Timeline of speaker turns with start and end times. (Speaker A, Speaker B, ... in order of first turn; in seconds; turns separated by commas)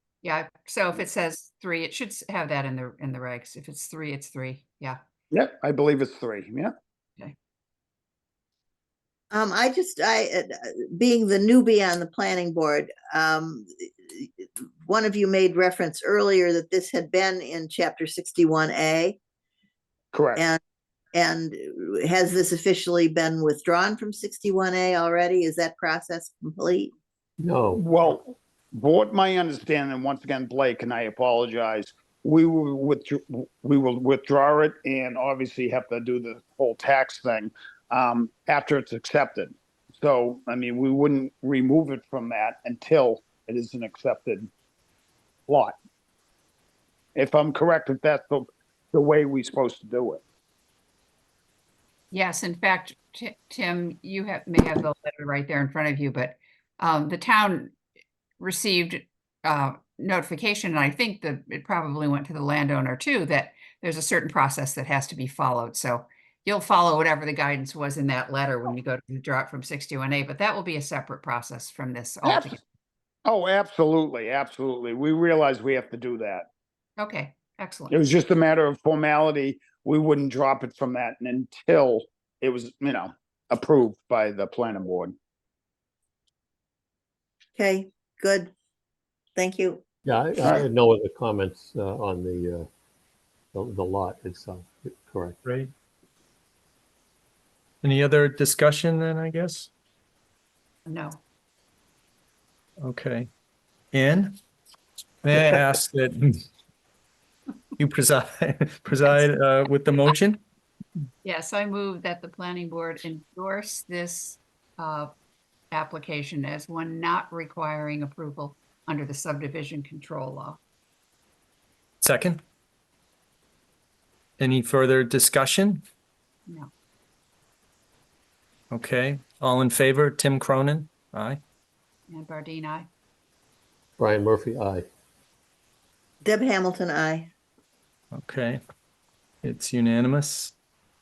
Speaker A: 0.2-5.0, Speaker B: 5.3-6.7, Speaker C: 9.3-19.2, Speaker B: 20.1-20.4, Speaker C: 21.1-26.9, Speaker D: 27.4-27.8, Speaker B: 27.7-44.5, Speaker B: 45.5-45.7, Speaker B: 47.1-50.2, Speaker A: 52.1-57.7, Speaker A: 58.4-72.6, Speaker B: 72.2-72.6, Speaker B: 73.2-76.5, Speaker A: 77.0-78.0, Speaker B: 77.9-85.1, Speaker C: 87.5-88.5, Speaker C: 89.3-89.8, Speaker D: 90.0-92.7, Speaker D: 93.5-95.4, Speaker E: 95.4-95.7, Speaker E: 97.8-99.7, Speaker A: 100.8-101.2, Speaker E: 102.8-103.3, Speaker E: 103.9-104.3, Speaker E: 105.2-106.4, Speaker E: 107.8-110.4, Speaker A: 111.2-115.1, Speaker A: 115.7-120.6, Speaker E: 122.0-122.4, Speaker E: 124.4-125.8, Speaker E: 128.7-131.4, Speaker A: 132.1-132.9, Speaker D: 134.0-134.9, Speaker C: 136.2-137.3, Speaker E: 138.1-138.6, Speaker E: 139.4-140.5